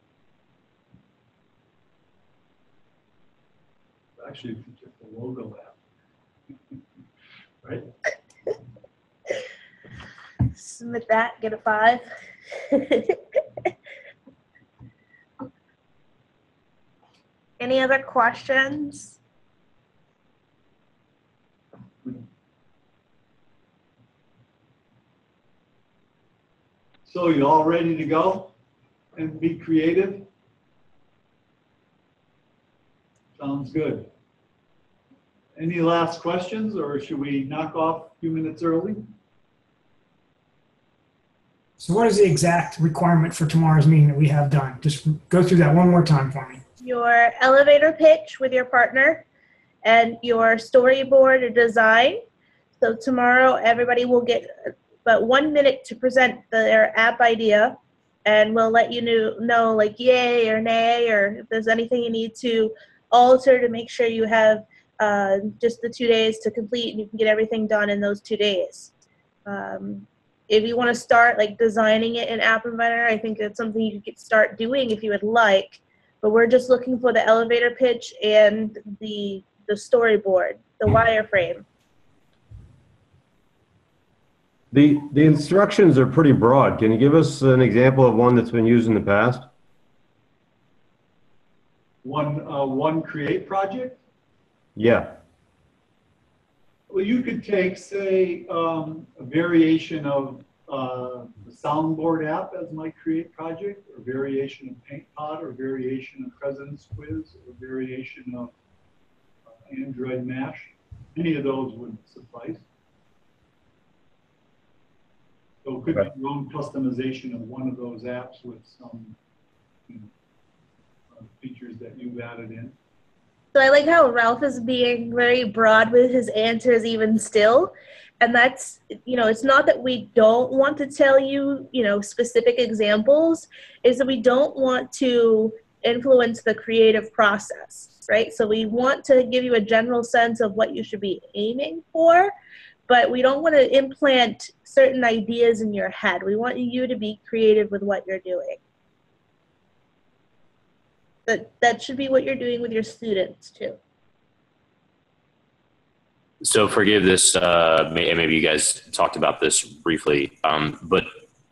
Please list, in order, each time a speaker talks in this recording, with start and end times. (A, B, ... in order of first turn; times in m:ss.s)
0:04.2-0:05.8 A
0:07.6-0:07.9 A
0:10.5-0:13.7 B
0:17.6-0:19.2 B
0:27.0-0:28.5 A
0:29.2-0:30.3 A
0:33.4-0:34.1 A
0:35.6-0:39.0 A
0:41.8-0:46.6 C
0:46.8-0:49.2 B
0:49.8-0:52.2 B
0:52.8-1:08.9 B
1:09.5-1:21.6 B
1:24.7-1:29.5 D
1:32.0-1:34.0 A
1:34.8-1:35.2 D
1:36.9-1:48.5 A
1:49.6-1:52.6 A
1:55.6-1:59.2 A
2:01.1-2:02.8 A
2:03.5-2:22.3 B
2:22.9-2:28.6 B
2:31.3-2:33.8 B
2:36.4-2:41.1 E